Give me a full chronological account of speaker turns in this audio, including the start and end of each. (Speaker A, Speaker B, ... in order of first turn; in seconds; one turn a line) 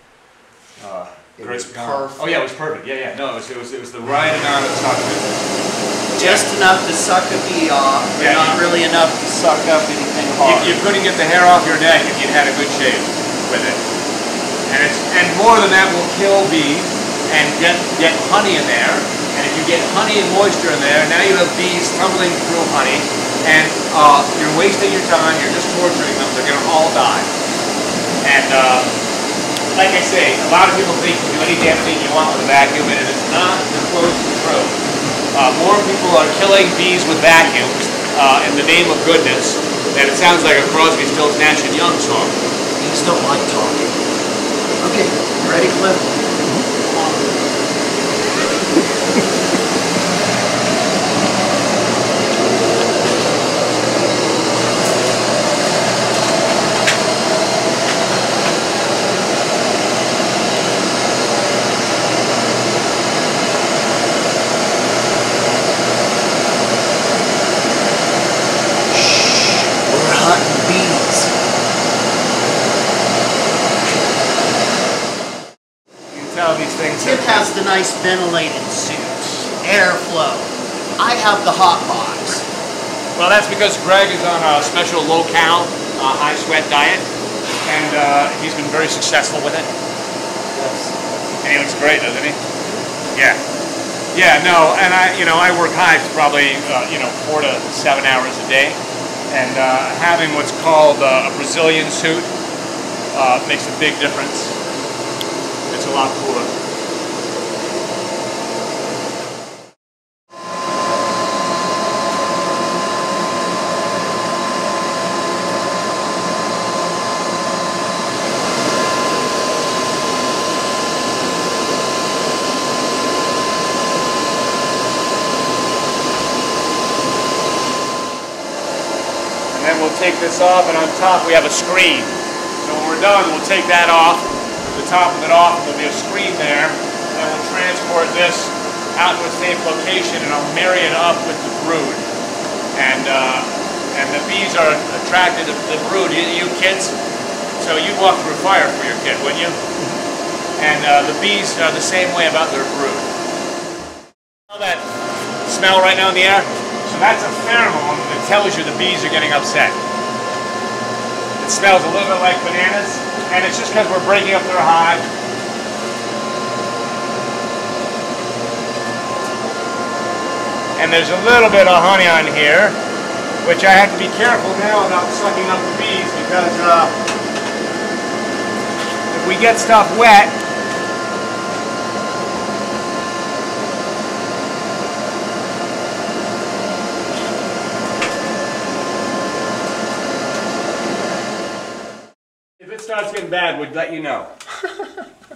Speaker A: 0.8-5.3
Speaker B: 1.4-2.2
Speaker B: 6.1-10.8
Speaker A: 6.2-6.4
Speaker A: 8.2-8.6
Speaker A: 10.4-13.8
Speaker A: 14.7-27.3
Speaker A: 28.2-29.0
Speaker A: 29.7-34.8
Speaker A: 35.3-42.4
Speaker B: 42.8-44.0
Speaker B: 44.8-46.1
Speaker B: 46.6-47.3
Speaker B: 69.7-71.3
Speaker A: 76.1-77.5
Speaker B: 77.0-82.5
Speaker A: 83.1-87.1
Speaker A: 87.6-89.7
Speaker B: 90.5-91.0
Speaker A: 91.4-92.4
Speaker A: 93.1-93.4
Speaker A: 94.1-102.3
Speaker A: 103.1-104.6
Speaker A: 105.7-106.5
Speaker A: 129.5-142.0
Speaker A: 142.7-146.9
Speaker A: 147.6-149.6
Speaker A: 150.6-153.1
Speaker A: 154.5-154.8
Speaker A: 155.4-159.8
Speaker A: 161.4-165.1
Speaker A: 170.8-172.8
Speaker A: 173.4-176.9
Speaker A: 179.1-180.4
Speaker A: 192.6-194.3